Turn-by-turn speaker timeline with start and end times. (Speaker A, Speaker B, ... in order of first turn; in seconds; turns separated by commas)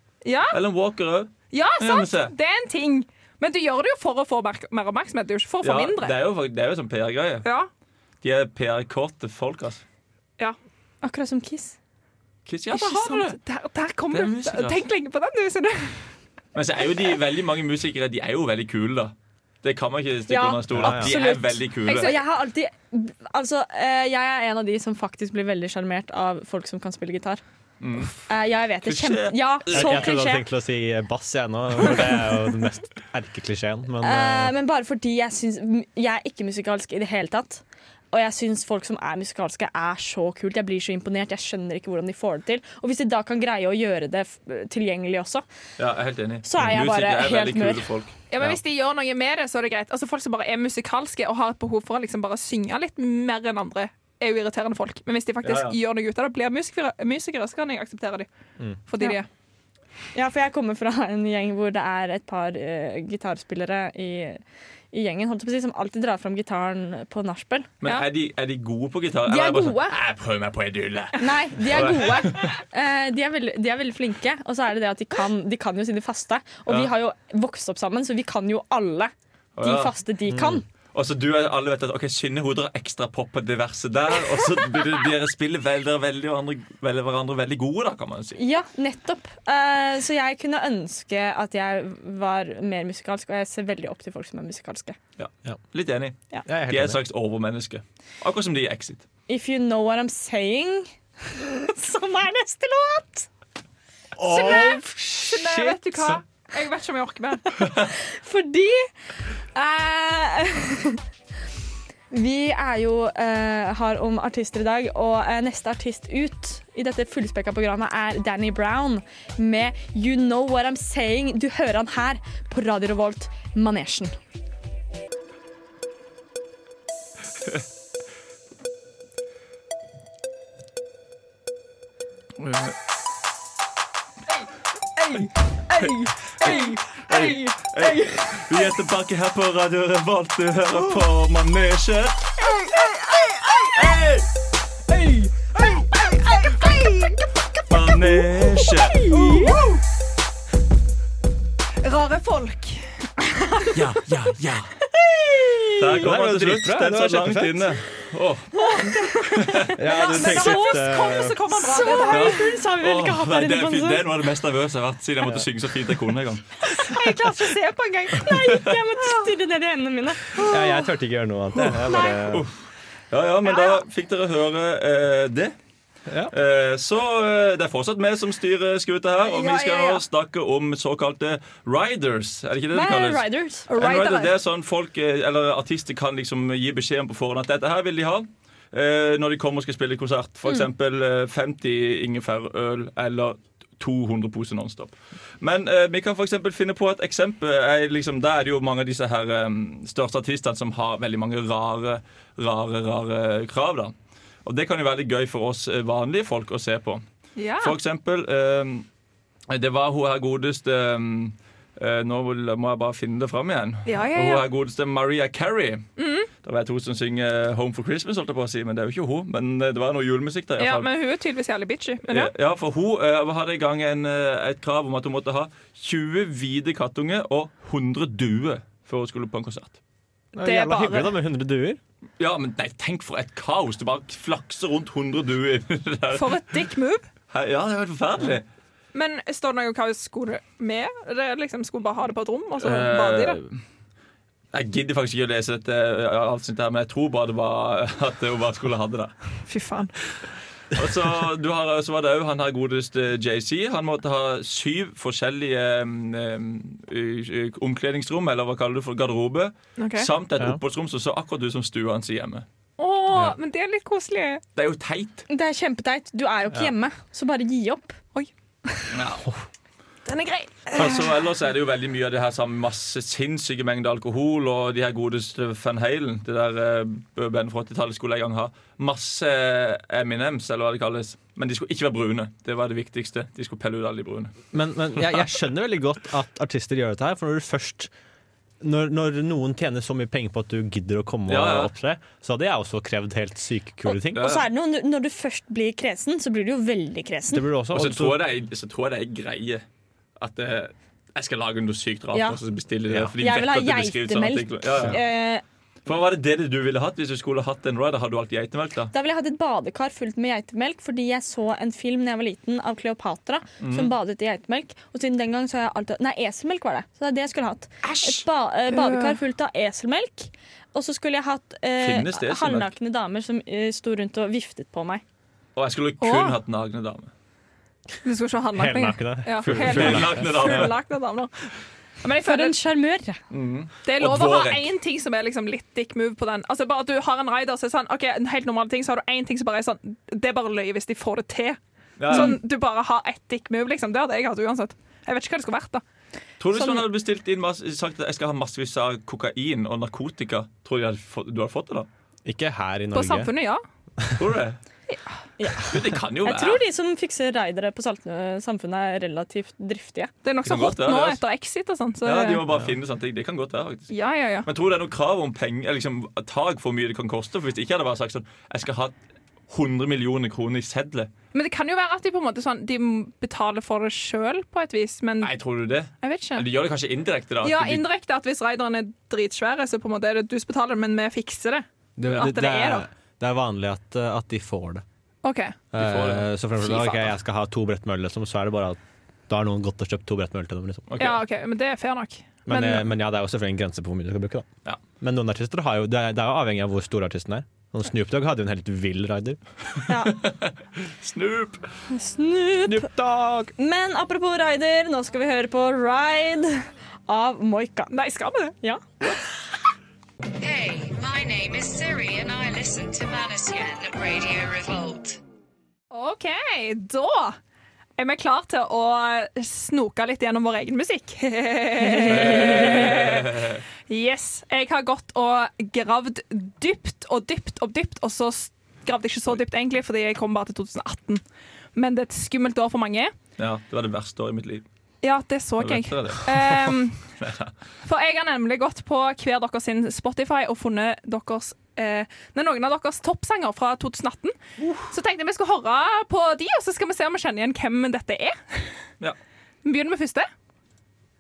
Speaker A: 0.2-0.6, Speaker B: 0.5-2.3, Speaker A: 1.5-6.2, Speaker B: 5.6-7.5, Speaker B: 8.2-9.8, Speaker C: 11.0-11.8, Speaker B: 12.5-13.4, Speaker A: 12.7-16.1, Speaker B: 14.1-14.8, Speaker B: 16.6-22.1, Speaker C: 20.3-27.4, Speaker D: 20.7-21.1, Speaker A: 21.9-22.2, Speaker B: 27.8-28.2, Speaker C: 28.3-30.4, Speaker B: 28.8-30.1, Speaker D: 29.7-34.5, Speaker C: 34.0-45.4, Speaker B: 45.8-48.1, Speaker C: 46.4-47.9, Speaker A: 48.3-58.3, Speaker B: 55.4-55.8, Speaker A: 58.9-59.3, Speaker C: 60.1-64.4, Speaker C: 64.9-67.7, Speaker B: 67.8-72.5, Speaker A: 69.3-69.9, Speaker C: 71.2-80.7, Speaker B: 79.6-79.9, Speaker D: 80.3-80.6, Speaker B: 80.9-88.4, Speaker C: 88.4-95.0, Speaker B: 95.2-99.0, Speaker D: 96.5-97.0, Speaker C: 99.3-103.3, Speaker D: 104.2-106.2, Speaker A: 104.3-107.5, Speaker C: 104.4-104.8, Speaker C: 108.1-108.9, Speaker C: 109.5-111.0, Speaker C: 112.1-124.2, Speaker B: 132.4-132.8, Speaker A: 135.1-137.3, Speaker B: 135.8-142.4, Speaker C: 136.4-138.1, Speaker C: 142.7-143.5, Speaker B: 143.7-144.3, Speaker A: 146.6-146.9, Speaker B: 147.7-149.1, Speaker C: 148.9-149.6, Speaker A: 149.0-149.8, Speaker A: 151.8-152.8, Speaker B: 153.7-154.7, Speaker C: 155.0-155.8, Speaker B: 155.8-158.6, Speaker D: 155.9-157.8, Speaker C: 158.6-160.9, Speaker B: 159.3-159.7, Speaker D: 159.7-161.4, Speaker A: 159.8-162.5, Speaker C: 161.5-164.1, Speaker B: 162.1-166.5, Speaker C: 166.6-170.4, Speaker A: 166.9-168.3, Speaker A: 169.0-169.2, Speaker D: 170.4-172.5, Speaker B: 171.7-175.6, Speaker D: 176.1-176.3, Speaker B: 176.3-183.2, Speaker A: 179.4-179.9, Speaker C: 182.7-183.7, Speaker A: 183.7-184.3, Speaker B: 183.8-203.9, Speaker B: 204.4-207.0, Speaker A: 207.4-207.8, Speaker B: 207.6-208.9, Speaker B: 209.5-215.9, Speaker A: 213.9-214.5, Speaker A: 216.0-216.3, Speaker B: 216.4-220.9, Speaker A: 220.6-222.3, Speaker B: 222.1-229.8, Speaker D: 230.3-231.8, Speaker A: 230.4-231.2, Speaker B: 232.2-236.6, Speaker A: 236.1-237.1, Speaker B: 237.3-238.5, Speaker A: 238.9-243.4, Speaker B: 242.6-243.6, Speaker B: 244.5-249.1, Speaker A: 249.5-250.0, Speaker B: 250.7-262.4, Speaker A: 259.8-260.1, Speaker A: 262.8-264.4, Speaker B: 264.6-265.2, Speaker C: 265.3-268.0, Speaker A: 268.1-268.9, Speaker B: 268.9-269.3, Speaker A: 270.1-271.1, Speaker B: 270.7-284.3, Speaker D: 284.5-287.9, Speaker D: 288.6-294.4, Speaker B: 291.3-291.7, Speaker C: 293.9-297.4, Speaker B: 294.1-294.5, Speaker D: 297.3-298.2, Speaker B: 297.7-299.6, Speaker B: 300.2-305.0, Speaker C: 302.1-302.4, Speaker C: 303.2-305.4, Speaker B: 305.9-308.9, Speaker C: 308.9-325.0, Speaker B: 313.6-313.9, Speaker B: 317.8-318.2, Speaker A: 318.7-319.2, Speaker B: 321.8-322.7, Speaker B: 325.6-327.1, Speaker A: 326.0-326.4, Speaker A: 328.0-331.3, Speaker D: 328.5-330.7, Speaker B: 329.4-330.8, Speaker A: 332.0-332.6, Speaker C: 332.2-333.2, Speaker B: 333.3-334.7, Speaker A: 333.9-345.8, Speaker B: 342.0-342.4, Speaker B: 346.4-351.9, Speaker C: 346.6-346.8, Speaker D: 352.2-353.3, Speaker A: 352.9-353.6, Speaker B: 354.2-354.6, Speaker C: 355.4-360.1, Speaker B: 355.6-356.6, Speaker A: 360.2-362.4, Speaker B: 360.4-361.2, Speaker B: 362.0-363.9, Speaker A: 363.9-364.5, Speaker B: 364.4-368.9, Speaker B: 369.5-371.1, Speaker A: 371.3-375.3, Speaker B: 375.2-377.9, Speaker A: 376.0-376.5, Speaker A: 377.4-382.9, Speaker D: 382.0-384.8, Speaker A: 385.2-385.6, Speaker D: 385.7-390.9, Speaker B: 385.8-386.2, Speaker A: 386.6-387.0, Speaker B: 390.9-391.2, Speaker A: 391.0-392.9, Speaker D: 392.5-394.5, Speaker D: 395.0-399.4, Speaker C: 399.9-400.2, Speaker B: 400.0-401.6, Speaker C: 401.9-402.9, Speaker D: 402.7-403.5, Speaker C: 403.6-407.9, Speaker A: 407.9-408.6, Speaker E: 410.4-415.2, Speaker A: 415.9-417.4, Speaker A: 418.0-431.2, Speaker B: 422.1-423.6, Speaker A: 431.8-433.1, Speaker B: 433.4-434.6, Speaker A: 435.0-437.0, Speaker B: 435.6-437.5, Speaker A: 437.9-444.4, Speaker A: 444.9-448.8, Speaker A: 449.6-450.3